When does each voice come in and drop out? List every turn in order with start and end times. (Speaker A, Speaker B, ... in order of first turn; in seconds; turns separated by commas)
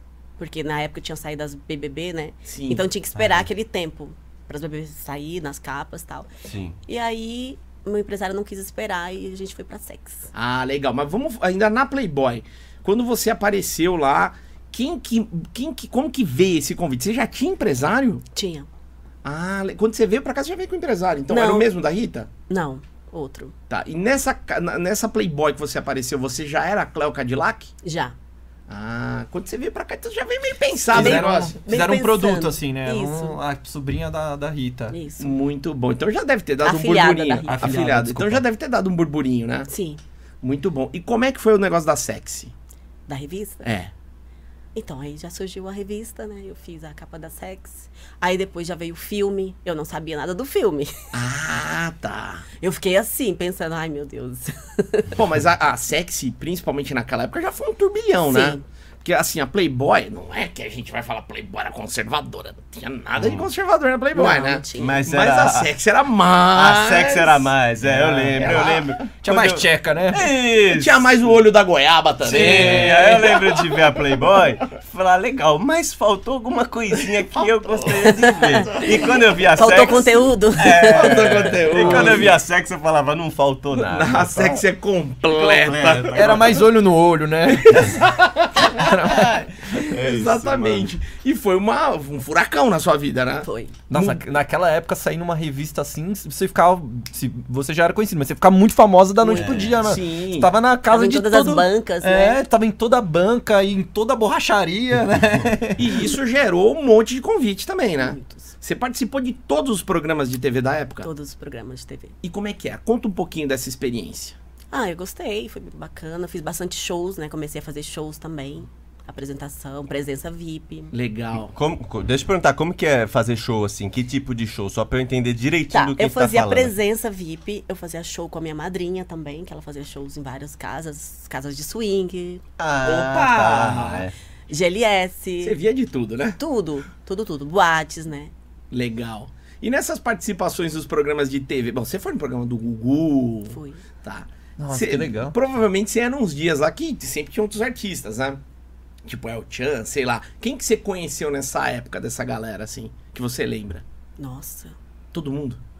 Speaker A: 0.4-6.3, Speaker B: 2.5-2.8, Speaker C: 3.1-3.5, Speaker C: 6.5-6.8, Speaker A: 6.9-10.3, Speaker B: 10.3-18.2, Speaker A: 18.3-18.7, Speaker B: 19.2-22.3, Speaker A: 21.3-21.7, Speaker A: 22.5-23.5, Speaker B: 23.7-27.7, Speaker A: 27.8-28.1, Speaker B: 28.7-31.6, Speaker D: 30.9-35.0, Speaker A: 30.9-33.4, Speaker A: 34.9-35.3, Speaker B: 35.2-39.7, Speaker A: 36.6-37.7, Speaker D: 37.4-38.4, Speaker A: 39.7-40.0, Speaker B: 40.4-42.5, Speaker A: 43.1-43.6, Speaker B: 43.6-43.9, Speaker A: 44.7-51.0, Speaker B: 51.1-52.5, Speaker A: 52.6-55.1, Speaker B: 55.1-67.5, Speaker A: 58.2-58.6, Speaker C: 63.1-63.5, Speaker A: 64.1-65.0, Speaker C: 64.7-65.7, Speaker C: 66.5-71.2, Speaker D: 67.8-70.3, Speaker B: 68.3-69.0, Speaker B: 70.7-73.8, Speaker C: 72.2-84.6, Speaker D: 72.3-73.1, Speaker B: 77.7-78.1, Speaker A: 78.2-78.7, Speaker A: 79.5-82.0, Speaker B: 80.9-82.3, Speaker B: 83.7-86.5, Speaker C: 85.3-86.7, Speaker D: 86.1-88.0, Speaker B: 87.5-94.2, Speaker D: 88.5-89.4, Speaker C: 88.8-90.9, Speaker A: 93.4-93.7, Speaker D: 93.9-106.1, Speaker A: 99.2-99.6, Speaker C: 99.3-99.9, Speaker B: 99.8-100.5, Speaker A: 100.9-102.4, Speaker B: 105.8-111.1, Speaker A: 108.0-108.5, Speaker A: 111.0-112.1, Speaker B: 112.2-114.3, Speaker A: 114.7-120.9, Speaker B: 120.9-121.5, Speaker C: 121.5-126.8, Speaker A: 125.7-132.4, Speaker C: 132.6-134.1, Speaker B: 132.8-134.1, Speaker A: 134.5-135.6, Speaker B: 135.4-136.4, Speaker A: 136.4-138.3, Speaker B: 138.7-148.4, Speaker A: 143.5-143.8, Speaker D: 144.6-145.3, Speaker B: 149.0-153.8, Speaker A: 154.2-154.7, Speaker B: 155.1-155.6